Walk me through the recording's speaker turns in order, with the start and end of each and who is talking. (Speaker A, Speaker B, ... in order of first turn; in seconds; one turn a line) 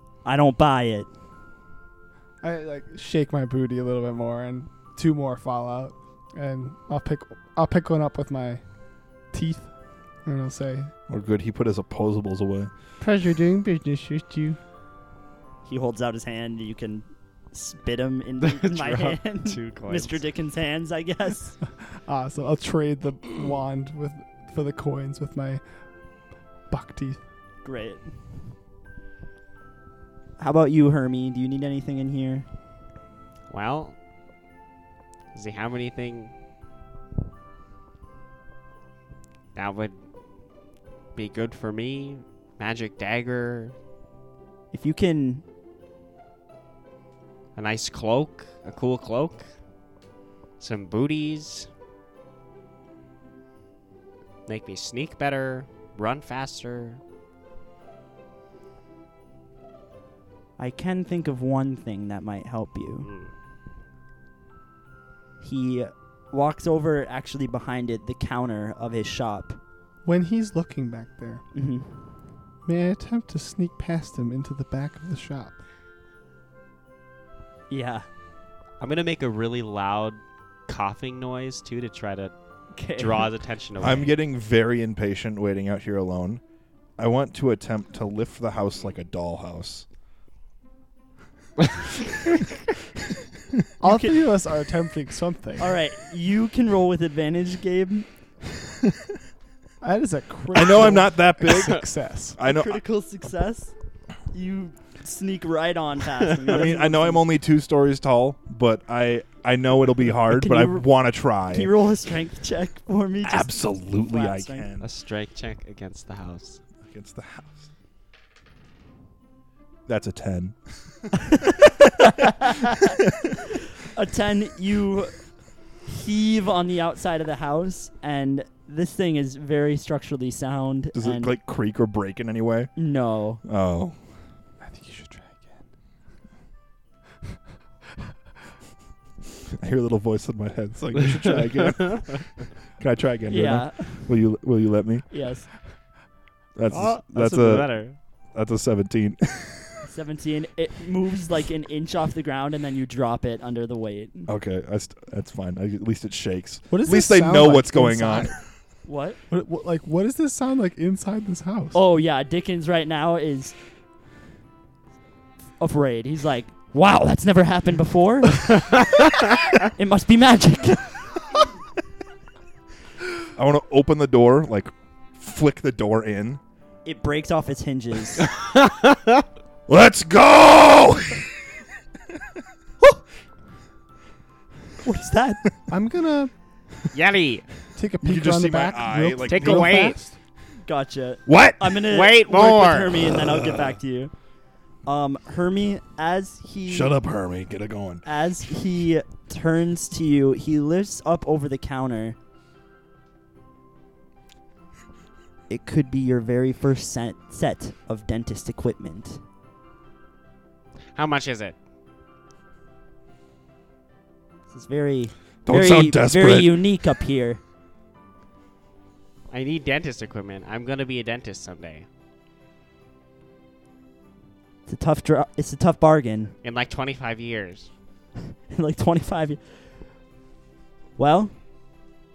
Speaker A: 0.2-1.1
Speaker B: 2.4-8.6
Speaker B: 9.3-9.7
Speaker B: 10.2-10.9
Speaker C: 11.1-12.7
Speaker B: 13.0-14.6
Speaker A: 15.6-21.6
Speaker D: 18.4-20.2
Speaker B: 22.1-25.6
Speaker B: 26.7-27.2
Speaker A: 27.6-28.1
Speaker A: 30.4-32.5
Speaker D: 33.5-33.9
Speaker D: 35.3-36.3
Speaker D: 39.5-39.9
Speaker D: 41.1-43.7
Speaker A: 44.7-45.4
Speaker D: 47.5-49.5
Speaker D: 50.6-51.7
Speaker D: 54.5-57.0
Speaker A: 60.6-63.1
Speaker D: 63.0-63.3
Speaker A: 65.4-69.6
Speaker B: 70.0-71.4
Speaker A: 71.5-71.9
Speaker B: 72.6-75.6
Speaker A: 77.7-78.0
Speaker D: 78.8-82.3
Speaker A: 82.7-83.3
Speaker D: 83.0-84.1
Speaker C: 83.8-86.4
Speaker C: 87.0-89.8
Speaker B: 93.8-95.7
Speaker A: 93.8-94.2
Speaker A: 95.6-98.1
Speaker B: 99.8-102.4
Speaker C: 100.5-102.8
Speaker A: 102.4-103.7
Speaker A: 104.3-107.2
Speaker C: 106.4-111.7
Speaker A: 110.3-110.9
Speaker A: 111.5-114.7
Speaker C: 113.2-114.9
Speaker D: 114.8-116.6
Speaker C: 116.8-117.7
Speaker C: 119.9-120.6
Speaker A: 121.2-123.0
Speaker A: 123.8-125.2
Speaker A: 125.8-131.3
Speaker C: 130.9-132.7
Speaker A: 132.8-133.4
Speaker C: 133.4-133.9
Speaker B: 134.6-135.6
Speaker C: 139.6-145.1
Speaker A: 143.3-144.1
Speaker A: 145.1-145.5
Speaker C: 146.5-147.8
Speaker D: 146.7-147.9
Speaker C: 148.3-149.8
Speaker A: 149.8-154.3
Speaker C: 154.3-158.4
Speaker B: 156.7-158.3
Speaker A: 158.8-159.2
Speaker B: 159.3-161.8
Speaker A: 161.7-163.5
Speaker A: 165.6-168.6
Speaker A: 169.7-170.9
Speaker C: 173.3-176.4
Speaker A: 176.8-178.3
Speaker D: 178.3-179.2
Speaker C: 179.7-181.3
Speaker A: 184.8-185.4
Speaker B: 185.7-186.3
Speaker D: 186.9-187.4
Speaker B: 187.8-190.2
Speaker C: 188.0-189.8
Speaker D: 189.2-189.9
Speaker A: 190.6-194.1
Speaker C: 191.2-191.9
Speaker D: 191.9-192.9
Speaker C: 193.0-193.8
Speaker A: 194.8-196.9
Speaker C: 196.7-198.0
Speaker A: 198.0-202.2
Speaker A: 205.5-209.2
Speaker D: 210.9-211.6
Speaker A: 214.5-217.4
Speaker C: 215.4-216.7
Speaker D: 219.3-221.8
Speaker A: 224.7-226.3
Speaker D: 226.4-227.7
Speaker A: 228.5-229.4
Speaker A: 231.0-231.3